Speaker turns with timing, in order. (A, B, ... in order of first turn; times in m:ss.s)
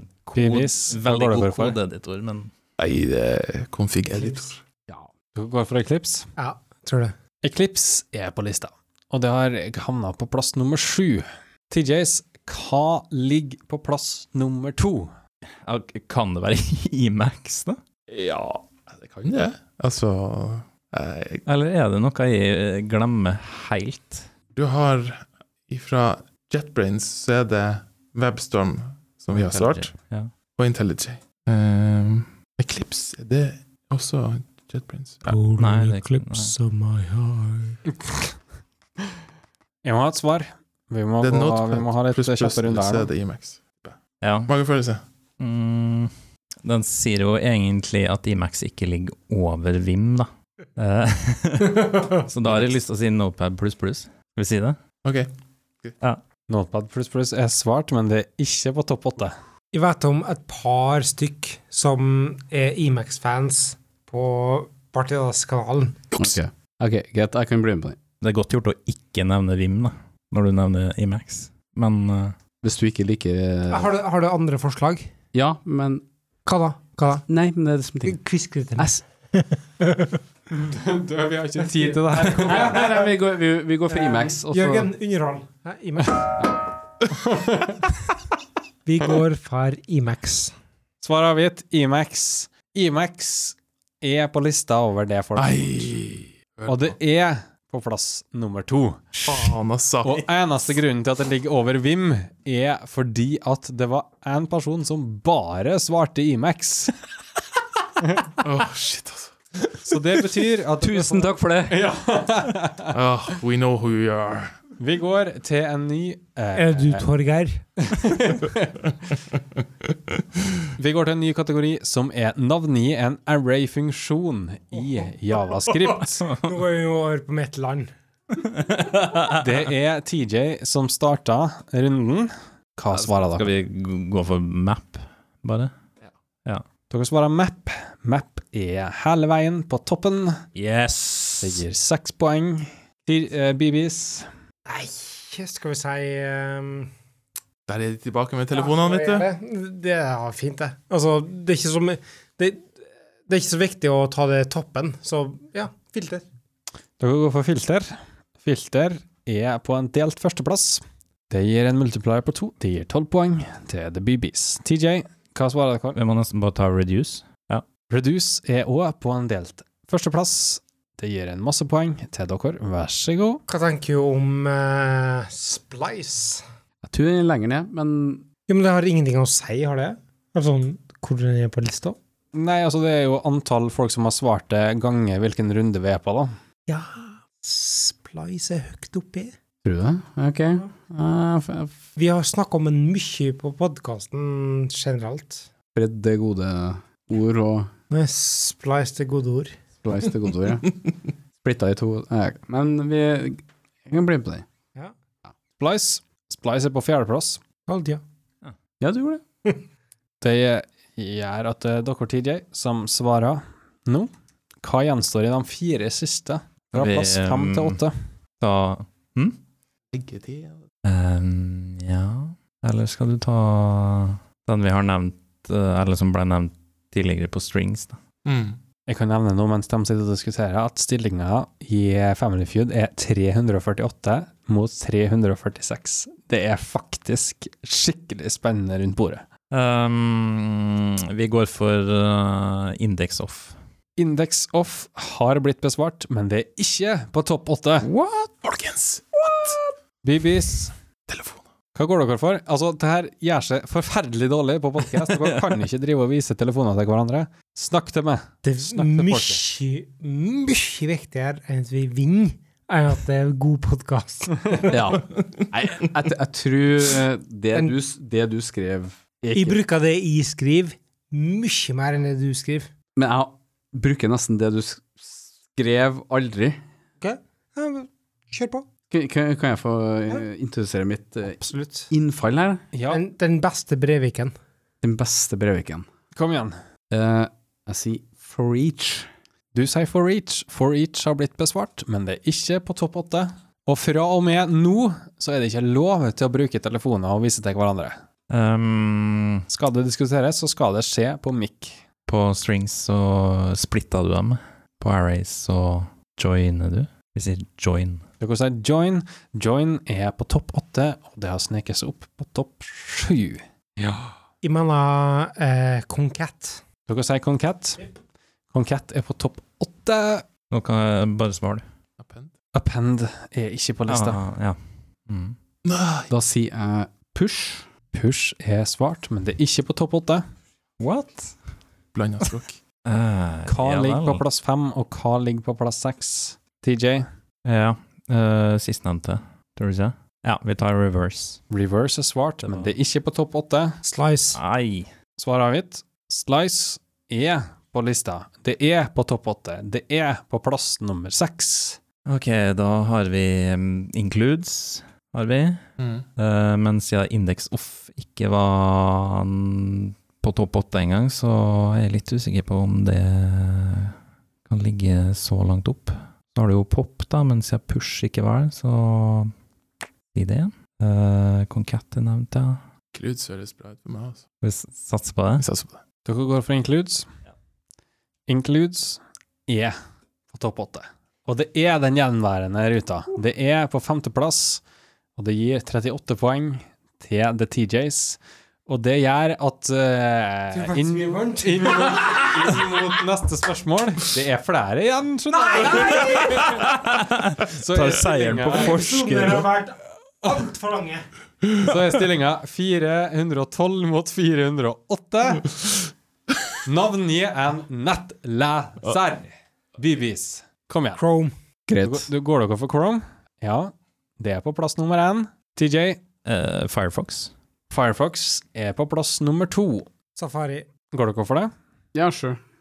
0:00.2-0:02.5 A
0:00.3-0:01.8 B
0:02.8-0:04.6 C
0:04.1-0:04.4 D
0:05.3-0:06.3 B
0:06.4-0:07.1 D
0:07.4-0:15.1 B
0:15.6-0:17.8 A
0:18.1-0:21.4 C
0:21.4-0:24.3 A
0:24.6-0:29.9 C
0:29.3-0:30.3 A
0:30.6-0:35.4 C
0:35.3-0:37.8 D
0:35.6-0:36.5 A
0:39.8-0:43.1 B
0:41.2-0:45.0 C
0:44.2-0:44.5 A
0:45.4-0:54.8 A
0:55.0-0:55.3 C
0:56.5-0:59.3 B
0:59.7-1:06.0 D
1:06.2-1:08.0 E
1:08.2-1:12.4 A
1:12.6-1:13.9 E
1:13.7-1:15.1 D
1:15.3-1:16.0 E
1:16.4-1:17.2 D
1:17.3-1:18.2 E
1:18.0-1:20.2 D
1:20.5-1:22.8 B
1:21.7-1:23.1 D
1:22.4-1:24.9 E
1:23.9-1:26.3 D
1:27.3-1:27.8 B
1:28.8-1:30.5 D
1:31.0-1:36.0 B
1:35.4-1:37.0 C
1:36.6-1:47.0 B
1:39.2-1:40.2 C
1:48.0-1:48.3 B
1:48.4-1:49.3 C
1:49.8-1:52.9 B
1:50.9-1:51.7 E
1:52.9-1:54.6 C
1:54.8-1:57.1 B
1:56.5-1:57.6 D
1:57.8-1:58.8 B
2:00.8-2:06.3 B
2:05.9-2:07.9 D
2:08.4-2:09.5 A
2:09.3-2:13.5 B
2:12.9-2:15.7 A
2:16.9-2:20.4 B
2:20.5-2:21.6 A
2:21.4-2:24.3 B
2:24.6-2:26.9 D
2:27.7-2:29.3 C
2:28.5-2:36.2 D
2:37.0-2:46.0 B
2:45.9-2:47.6 A
2:47.9-2:53.4 B
2:53.5-2:56.4 D
2:56.8-2:58.2 E
2:58.5-3:02.0 D
3:02.3-3:06.3 B
3:06.7-3:09.3 D
3:09.6-3:11.8 E
3:12.0-3:15.5 D
3:15.7-3:17.7 E
3:17.9-3:19.6 D
3:19.8-3:24.4 E
3:25.6-3:27.4 B
3:27.7-3:28.0 D
3:28.8-3:29.2 E
3:30.2-3:34.1 B
3:34.6-3:37.9 B
3:36.7-3:37.8 A
3:38.4-3:39.4 A
3:39.9-3:40.6 C
3:40.8-3:48.0 A
3:48.2-3:48.6 C
3:48.9-3:59.2 B
3:59.5-4:03.6 A
4:04.0-4:07.9 B
4:08.2-4:09.5 C
4:10.0-4:10.7 B
4:11.1-4:11.4 C
4:11.7-4:19.4 B
4:18.4-4:24.9 D
4:24.7-4:29.6 E
4:29.3-4:32.7 D
4:33.0-4:36.6 E
4:37.0-4:38.6 D
4:38.9-4:42.6 E
4:41.4-4:41.9 D
4:42.7-4:43.0 B
4:42.9-4:44.3 D
4:44.8-4:45.8 E
4:46.1-4:46.6 B
4:46.9-4:49.1 E
4:49.5-4:58.0 B
4:58.3-4:59.4 A
4:59.5-5:01.8 B
5:02.1-5:08.0 A
5:08.2-5:14.1 B
5:14.4-5:16.6 D
5:16.9-5:17.8 B
5:18.5-5:20.2 B
5:20.5-5:21.6 A
5:22.0-5:22.3 C
5:22.5-5:24.2 B
5:23.9-5:25.4 A
5:25.6-5:26.1 C
5:26.1-5:27.7 E
5:27.9-5:30.2 B
5:30.8-5:31.3 A
5:31.9-5:32.6 C
5:32.8-5:34.2 A
5:33.4-5:37.1 B
5:37.4-5:41.4 A
5:41.5-5:43.8 B
5:42.4-5:42.7 A
5:43.8-5:44.4 D
5:44.3-5:44.9 A
5:45.2-5:51.8 B
5:52.0-5:55.6 A
5:55.8-5:56.0 C
5:56.2-6:03.9 A
6:04.5-6:09.3 A
6:10.1-6:12.6 A
6:12.9-6:14.2 C
6:14.4-6:15.4 A
6:15.4-6:15.8 C
6:16.0-6:17.1 B
6:18.3-6:19.8 B
6:20.3-6:24.6 B
6:25.2-6:36.7 B
6:30.5-6:32.6 D
6:35.3-6:36.5 D
6:36.3-6:39.5 A
6:37.5-6:38.8 B
6:38.5-6:41.0 D
6:41.6-6:45.5 B
6:46.6-6:51.0 B
6:51.0-6:51.3 D
6:51.7-6:52.1 E
6:51.8-6:56.0 B
6:56.2-6:57.3 A
6:57.7-6:59.9 B
7:00.2-7:00.7 D
7:00.9-7:01.5 B
7:01.9-7:02.4 E